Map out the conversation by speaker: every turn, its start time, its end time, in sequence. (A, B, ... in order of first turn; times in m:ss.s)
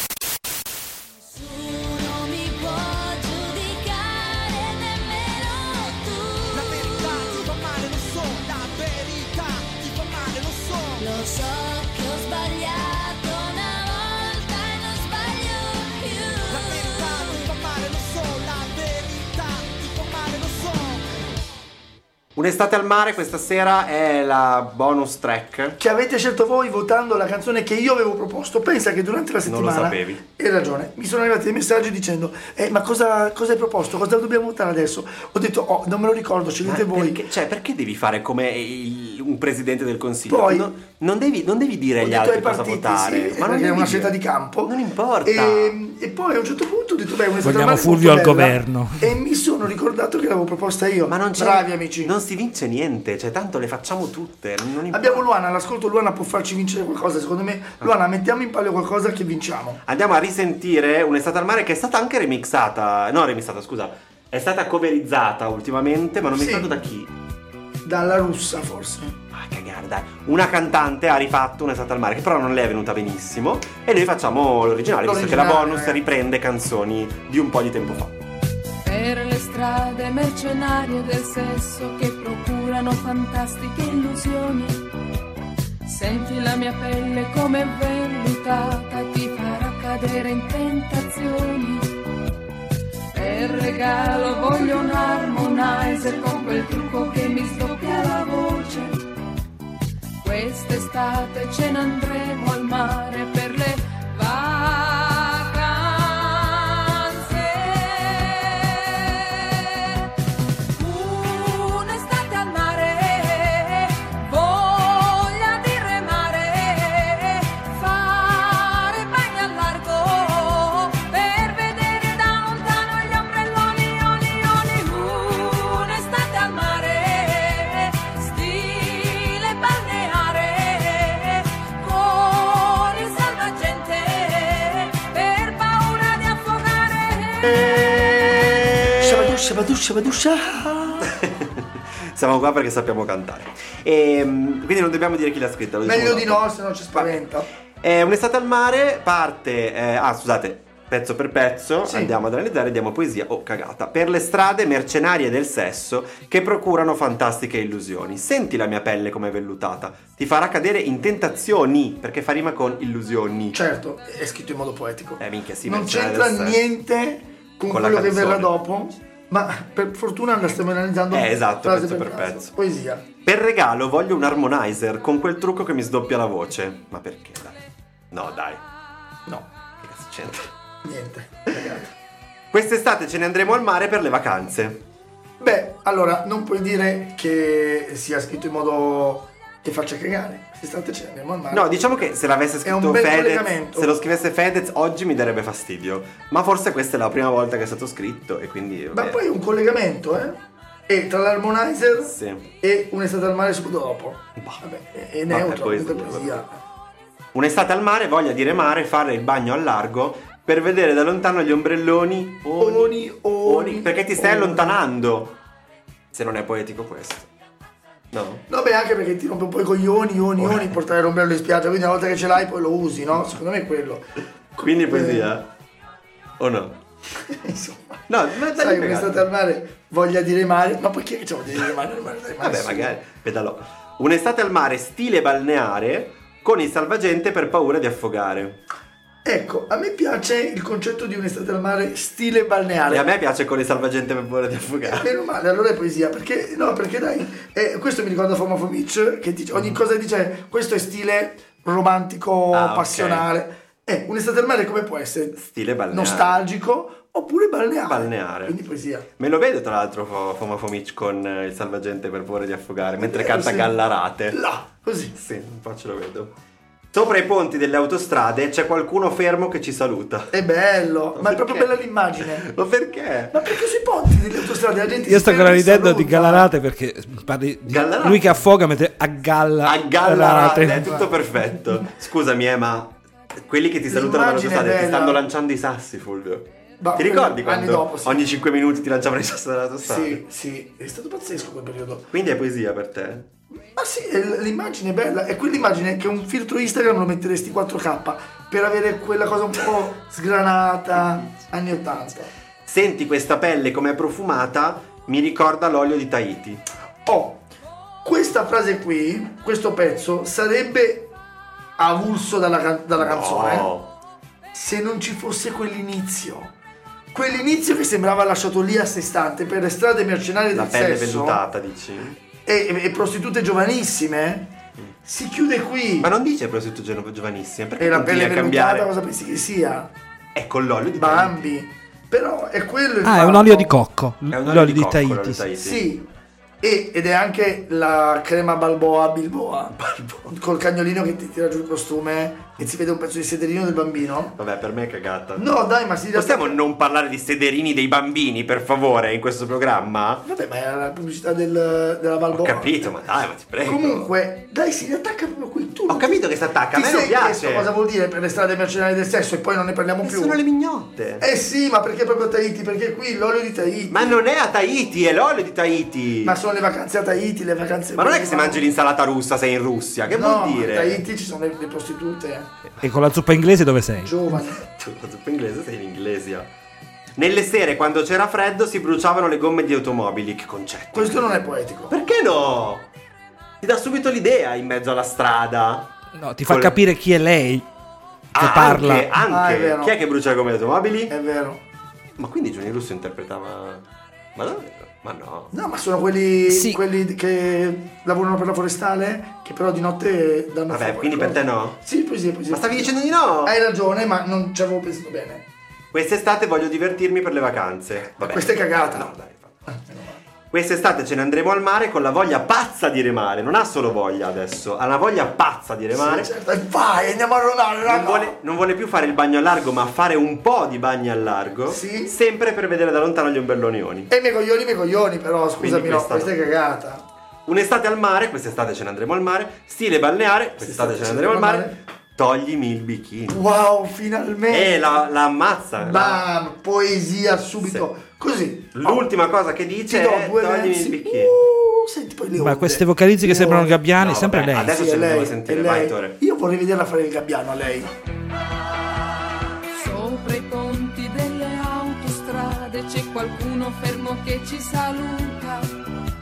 0:01.5-0:06.7 A
0:06.5-0:11.1 B
0:11.0-0:17.1 A
0:16.5-0:21.0 B
0:22.4-0:25.8 C
0:25.8-0:37.2 D
0:29.4-0:30.2 C
0:36.6-0:45.8 C
0:40.3-0:40.7 D
0:42.0-0:52.1 D
0:47.4-0:49.1 E
0:51.0-0:55.2 C
0:54.9-0:59.8 D
0:59.8-1:07.1 C
1:06.4-1:06.7 D
1:07.8-1:09.2 D
1:09.3-1:18.1 C
1:15.0-1:16.0 D
1:18.8-1:24.8 F
1:25.8-1:31.9 F
1:33.1-1:39.0 F
1:40.2-1:50.1 F
1:50.7-2:18.3 F
2:17.4-2:19.4 C
2:19.0-2:21.1 D
2:21.1-2:27.2 C
2:25.8-2:27.5 D
2:27.8-2:43.6 C
2:31.8-2:32.2 D
2:43.5-2:53.0 D
2:45.2-2:46.6 C
2:47.7-2:48.5 C
2:51.1-2:52.5 C
2:53.2-2:57.6 C
2:58.1-2:58.6 C
2:59.8-3:00.5 C
3:00.8-3:01.9 D
3:02.5-3:04.8 C
3:05.4-3:14.0 D
3:11.5-3:19.2 C
3:18.9-3:26.6 D
3:22.0-3:22.5 C
3:24.4-3:24.6 C
3:25.3-3:26.4 C
3:27.3-3:35.4 C
3:32.6-3:34.8 D
3:36.1-3:37.3 C
3:38.1-3:38.4 C
3:38.5-3:45.3 D
3:40.4-3:40.6 C
3:44.6-3:45.5 C
3:46.4-3:46.8 C
3:47.2-3:48.0 D
3:48.1-3:49.3 C
3:48.5-3:52.9 D
3:52.4-3:58.6 C
3:59.2-4:03.1 D
4:02.9-4:05.1 C
4:04.9-4:19.0 D
4:12.5-4:13.3 C
4:15.4-4:16.4 C
4:17.8-4:18.6 C
4:19.2-4:24.4 C
4:23.0-4:23.8 D
4:24.3-4:25.1 D
4:25.1-4:26.4 C
4:26.9-4:30.3 C
4:30.3-4:32.5 D
4:31.1-4:33.5 C
4:33.3-4:36.5 D
4:35.0-4:40.8 E
4:37.7-4:38.3 C
4:39.6-4:50.2 C
4:40.2-4:41.2 D
4:43.9-4:45.2 D
4:46.8-4:48.2 D
4:49.8-4:52.1 D
4:52.1-4:53.3 C
4:53.6-5:02.3 D
5:02.6-5:06.6 C
5:07.0-5:07.4 D
5:08.0-5:11.1 D
5:11.8-5:13.7 D
5:13.0-5:13.9 C
5:14.5-5:16.5 D
5:17.1-5:21.4 D
5:20.5-5:22.2 C
5:22.4-5:24.5 D
5:25.0-5:26.1 D
5:26.0-5:28.9 C
5:27.8-5:29.9 D
5:30.3-5:31.6 C
5:30.9-5:33.8 D
5:33.0-5:35.4 E
5:34.3-5:35.8 C
5:35.6-5:36.1 D
5:36.6-5:44.4 D
5:39.8-5:40.1 C
5:44.4-5:45.4 C
5:45.4-5:46.6 D
5:46.1-5:50.3 C
5:50.2-5:53.0 D
5:52.3-5:54.1 C
5:53.6-6:00.4 D
5:55.9-5:57.7 C
6:00.0-6:01.2 C
6:01.2-6:04.2 D
6:03.9-6:06.4 C
6:06.2-6:08.7 D
6:07.9-6:11.0 C
6:10.1-6:12.5 D
6:12.8-6:14.1 E
6:14.0-6:14.6 D
6:14.4-6:16.5 C
6:17.2-6:22.9 C
6:20.9-6:22.0 D
6:23.6-6:25.9 C
6:26.2-6:27.6 E
6:26.5-6:26.8 C
6:28.3-6:29.1 E
6:28.3-6:31.1 C
6:29.2-6:30.0 D
6:31.1-6:31.6 D
6:32.2-6:33.8 C
6:34.4-6:35.5 C
6:35.5-6:45.4 D
6:36.5-6:36.8 E
6:40.7-6:41.8 C
6:42.5-6:43.5 C
6:45.9-6:49.5 C
6:48.2-6:49.1 D
6:49.7-6:50.2 D
6:50.5-6:56.3 C
6:55.9-6:58.4 D
6:57.8-7:04.1 C
7:01.7-7:02.1 D
7:04.1-7:07.0 D
7:05.6-7:06.3 C
7:07.5-7:13.4 C
7:10.6-7:11.8 D
7:13.3-7:14.9 D
7:14.5-7:16.2 C
7:15.8-7:19.1 D
7:17.6-7:17.9 C
7:18.7-7:21.3 C
7:19.9-7:23.8 D
7:22.3-7:24.7 E
7:24.0-7:26.2 C
7:24.7-7:27.9 D
7:29.7-7:35.7 F